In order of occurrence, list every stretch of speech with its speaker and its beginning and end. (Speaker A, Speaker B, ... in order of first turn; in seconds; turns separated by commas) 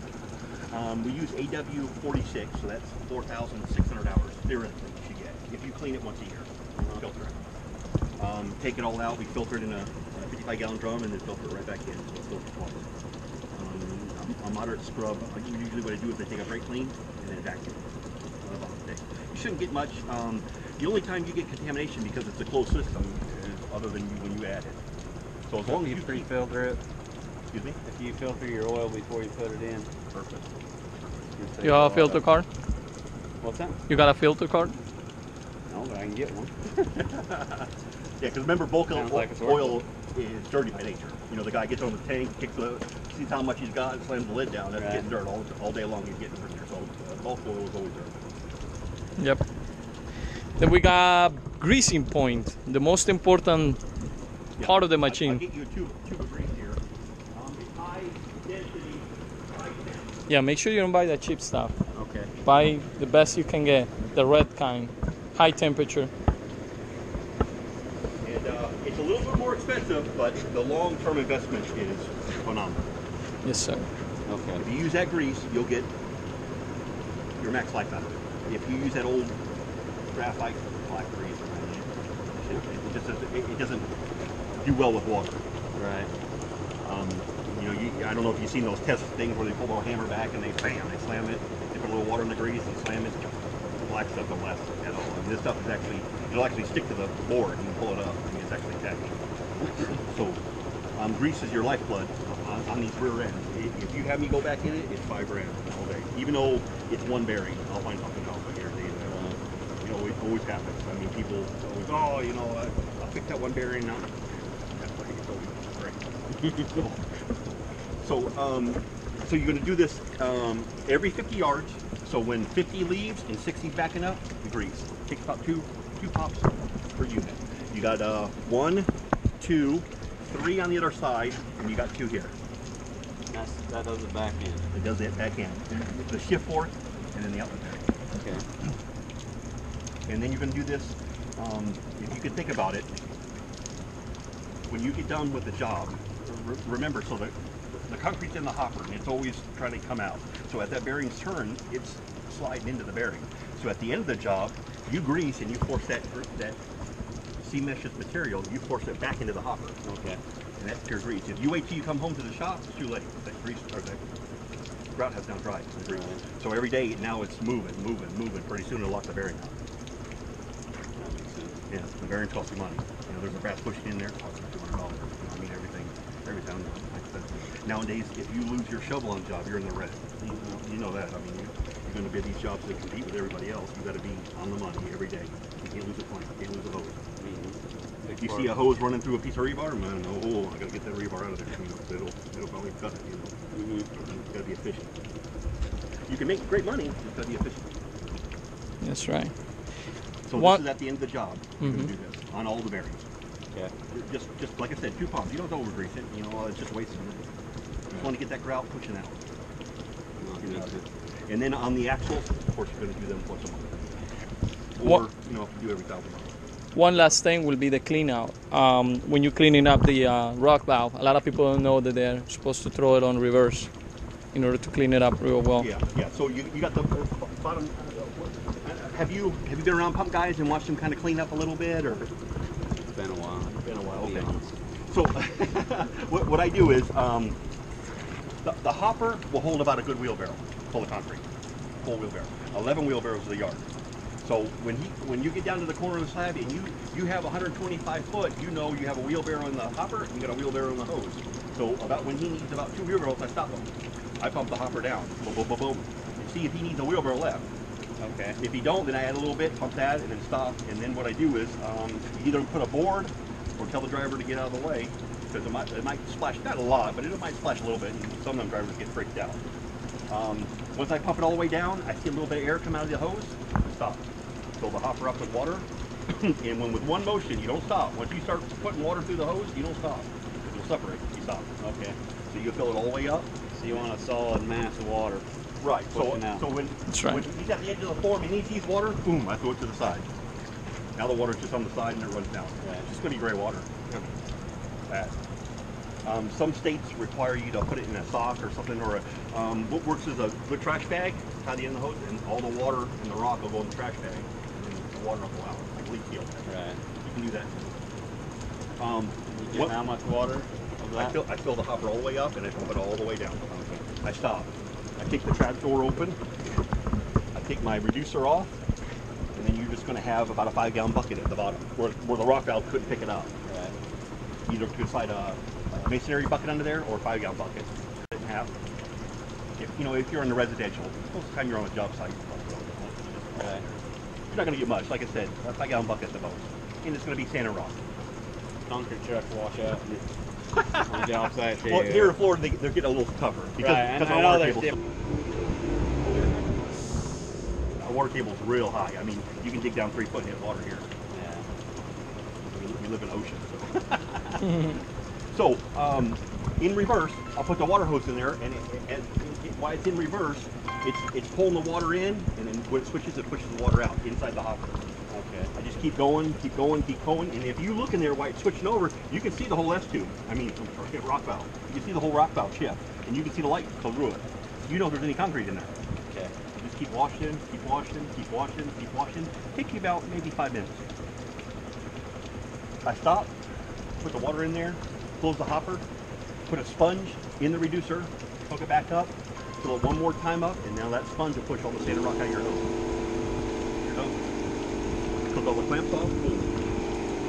Speaker A: 0.7-7.4, Speaker B: 6.8-7.0, Speaker A: 8.2-12.9, Speaker A: 13.5-17.9, Speaker A: 18.4-24.8, Speaker A: 25.5-26.3, Speaker B: 25.7-26.8, Speaker A: 27.5-27.8, Speaker B: 27.8-29.9, Speaker A: 30.1-31.3, Speaker B: 31.4-32.2, Speaker C: 31.6-32.5, Speaker B: 33.4-33.8, Speaker C: 33.9-34.8, Speaker B: 35.7-36.6, Speaker A: 36.9-48.4, Speaker B: 38.9-39.8, Speaker B: 44.8-45.1, Speaker C: 49.2-49.4, Speaker C: 50.6-53.8, Speaker A: 54.6-56.8, Speaker C: 54.6-55.4, Speaker A: 57.3-60.2, Speaker C: 60.3-61.8, Speaker B: 61.9-62.3, Speaker C: 62.5-66.1, Speaker A: 68.2-72.9, Speaker C: 73.4-73.9, Speaker B: 74.3-74.6, Speaker A: 74.6-75.9, Speaker A: 77.4-79.4, Speaker A: 80.1-83.9, Speaker A: 84.6-85.4, Speaker B: 85.8-86.1, Speaker A: 86.8-99.2, Speaker A: 100.0-100.4, Speaker A: 101.0-132.4, Speaker B: 109.0-109.4, Speaker B: 116.4-116.8, Speaker B: 133.3-134.7, Speaker A: 134.7-137.8, Speaker B: 138.2-138.5, Speaker A: 140.1-143.2, Speaker A: 144.7-156.6, Speaker A: 157.4-159.8, Speaker B: 159.8-160.2, Speaker A: 160.6-164.0, Speaker A: 164.9-169.6, Speaker B: 165.9-166.2, Speaker B: 171.0-171.6, Speaker A: 171.7-187.0, Speaker B: 180.2-180.6, Speaker B: 187.2-188.6, Speaker A: 188.2-193.4, Speaker B: 193.5-193.9, Speaker A: 193.9-194.9, Speaker A: 196.1-197.8, Speaker C: 198.8-199.3, Speaker A: 200.3-203.1, Speaker C: 200.4-200.6, Speaker C: 201.6-201.9, Speaker A: 203.9-207.3, Speaker A: 207.9-209.2, Speaker B: 210.2-210.8, Speaker A: 210.4-210.8, Speaker A: 211.3-214.0, Speaker A: 214.8-216.4, Speaker C: 216.8-223.7, Speaker C: 224.3-225.7, Speaker A: 225.6-232.1, Speaker B: 232.8-234.5, Speaker A: 233.6-234.3, Speaker A: 234.9-237.4, Speaker A: 238.4-241.2, Speaker A: 241.8-243.7, Speaker A: 244.2-257.5, Speaker B: 258.0-258.4, Speaker A: 258.4-269.4, Speaker A: 270.1-274.1, Speaker A: 274.6-281.5, Speaker B: 281.6-282.0, Speaker A: 282.3-283.9, Speaker B: 283.5-285.2, Speaker A: 285.6-290.1, Speaker B: 285.9-286.4, Speaker C: 286.9-287.2, Speaker A: 291.0-294.1, Speaker A: 294.9-295.2, Speaker A: 296.0-307.7, Speaker B: 306.5-306.8, Speaker A: 308.8-309.8, Speaker B: 309.3-311.2, Speaker A: 310.9-316.2, Speaker B: 313.5-313.8, Speaker A: 317.3-318.5, Speaker A: 319.3-323.3, Speaker B: 323.5-323.8, Speaker A: 324.5-328.5, Speaker A: 329.6-337.8, Speaker B: 333.4-333.6, Speaker B: 338.7-340.0, Speaker A: 340.5-341.0, Speaker B: 340.8-342.2, Speaker A: 341.6-344.8, Speaker B: 343.6-344.8, Speaker A: 346.1-346.6, Speaker A: 347.8-350.9, Speaker B: 351.1-351.5, Speaker A: 352.5-364.9, Speaker B: 365.1-365.5, Speaker A: 365.6-375.7, Speaker B: 376.1-376.3, Speaker A: 376.5-380.9, Speaker A: 382.8-383.4, Speaker A: 384.0-385.8, Speaker A: 386.5-392.8, Speaker A: 393.8-394.2, Speaker A: 395.3-396.5